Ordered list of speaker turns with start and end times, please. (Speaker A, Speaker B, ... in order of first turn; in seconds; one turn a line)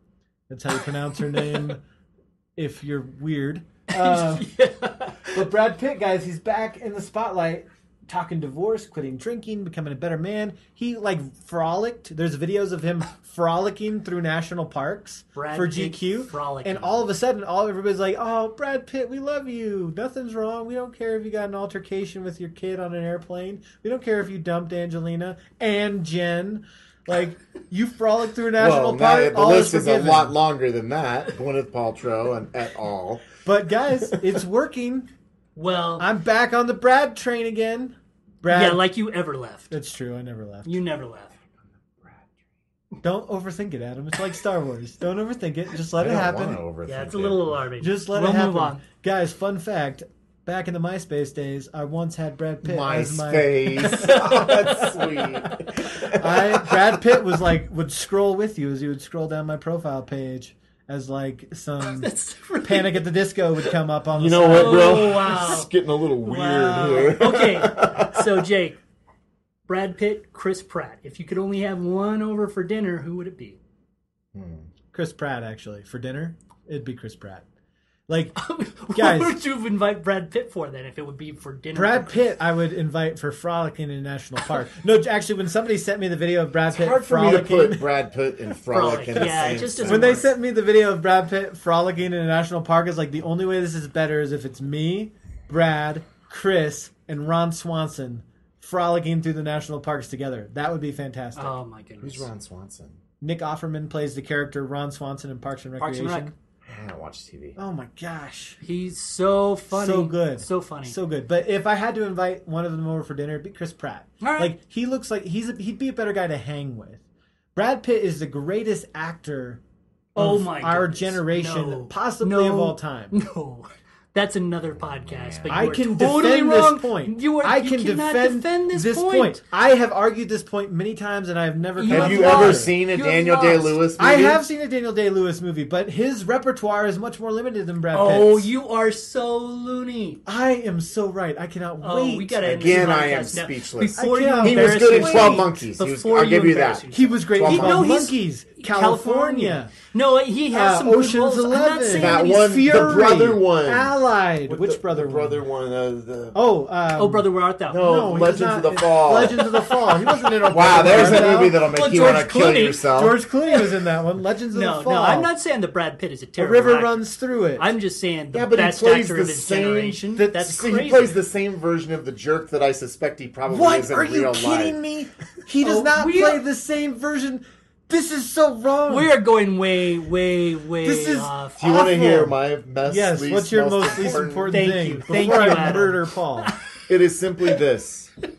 Speaker A: 0.5-1.8
Speaker A: 2.6-4.5
Speaker B: 4.0-5.4
Speaker A: 5.3-30.4
Speaker B: 15.3-17.1
Speaker C: 28.6-33.3
Speaker A: 33.4-35.1
Speaker B: 35.6-36.1
Speaker A: 36.0-38.8
Speaker B: 38.5-39.7
Speaker A: 39.7-40.8
Speaker B: 40.6-41.4
Speaker C: 41.6-42.4
Speaker A: 43.0-46.6
Speaker C: 46.0-47.7
Speaker B: 46.9-48.8
Speaker A: 47.8-54.1
Speaker C: 52.6-56.8
Speaker B: 53.8-55.4
Speaker A: 55.9-65.3
Speaker B: 61.8-63.1
Speaker C: 64.2-68.5
Speaker B: 64.5-68.8
Speaker B: 69.7-73.6
Speaker C: 74.3-74.7
Speaker A: 74.9-77.5
Speaker A: 78.1-78.4
Speaker B: 78.4-82.2
Speaker A: 78.9-79.4
Speaker A: 81.7-87.9
Speaker C: 86.7-90.2
Speaker B: 88.7-90.3
Speaker A: 89.2-101.6
Speaker B: 101.4-102.3
Speaker C: 102.0-103.0
Speaker A: 103.2-106.3
Speaker B: 105.8-106.3
Speaker C: 106.6-107.6
Speaker A: 107.6-108.6
Speaker B: 108.6-111.0
Speaker A: 109.7-117.0
Speaker B: 114.2-114.5
Speaker A: 117.6-119.6
Speaker B: 120.2-129.4
Speaker A: 120.2-123.2
Speaker C: 124.8-125.7
Speaker A: 125.5-132.8
Speaker B: 131.8-133.8
Speaker C: 131.9-134.4
Speaker A: 134.0-138.5
Speaker B: 137.9-140.2
Speaker A: 140.2-142.4
Speaker B: 141.8-152.6
Speaker C: 142.4-148.0
Speaker A: 144.0-145.5
Speaker A: 146.9-149.8
Speaker A: 150.5-155.4
Speaker C: 151.9-156.4
Speaker A: 156.3-161.7
Speaker B: 157.0-158.1
Speaker C: 157.7-159.5
Speaker B: 159.1-162.9
Speaker C: 160.5-163.2
Speaker A: 162.9-165.3
Speaker B: 163.5-163.8
Speaker B: 164.5-171.2
Speaker A: 166.4-167.7
Speaker C: 168.3-174.8
Speaker A: 170.2-170.4
Speaker A: 173.5-179.2
Speaker B: 175.6-176.4
Speaker B: 178.9-181.6
Speaker A: 180.8-186.5
Speaker C: 181.6-185.8
Speaker B: 184.5-186.8
Speaker C: 186.9-188.1